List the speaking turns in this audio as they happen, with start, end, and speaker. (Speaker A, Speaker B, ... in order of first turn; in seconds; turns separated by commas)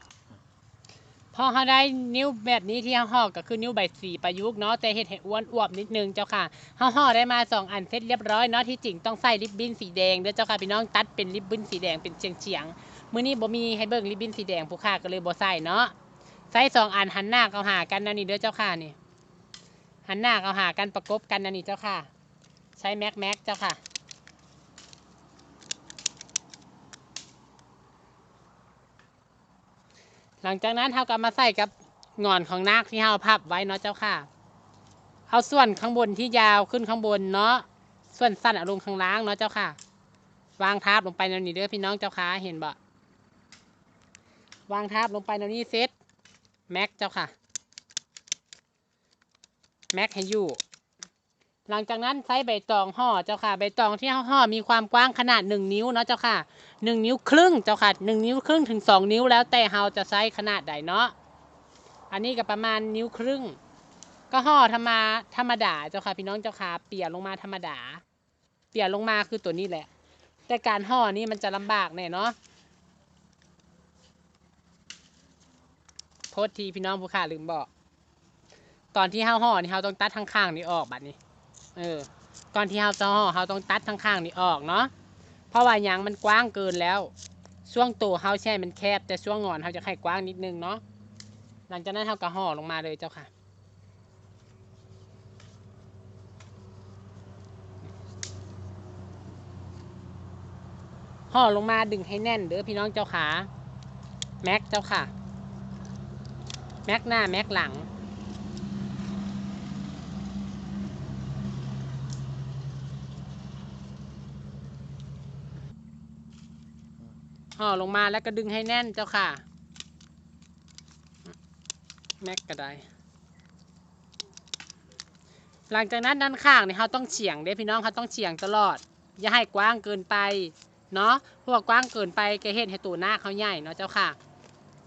Speaker A: 1.3-15.9, Speaker A: 16.5-18.9, Speaker A: 20.1-22.1, Speaker A: 22.8-23.8, Speaker A: 30.4-34.3, Speaker A: 35.3-39.8, Speaker A: 40.6-42.8, Speaker A: 44.7-45.9, Speaker A: 46.7-47.3, Speaker A: 49.9-50.6, Speaker A: 51.7-61.1, Speaker A: 62.1-63.6, Speaker A: 64.3-68.0, Speaker A: 68.7-69.9, Speaker A: 70.5-72.3, Speaker A: 76.3-77.7, Speaker A: 78.9-81.2, Speaker A: 81.8-84.9, Speaker A: 85.5-87.1, Speaker A: 87.6-90.8, Speaker A: 91.7-93.3, Speaker A: 101.3-103.5, Speaker A: 104.4-105.1, Speaker A: 106.8-107.9, Speaker A: 117.5-119.4, Speaker A: 122.2-122.9, Speaker A: 125.7-134.2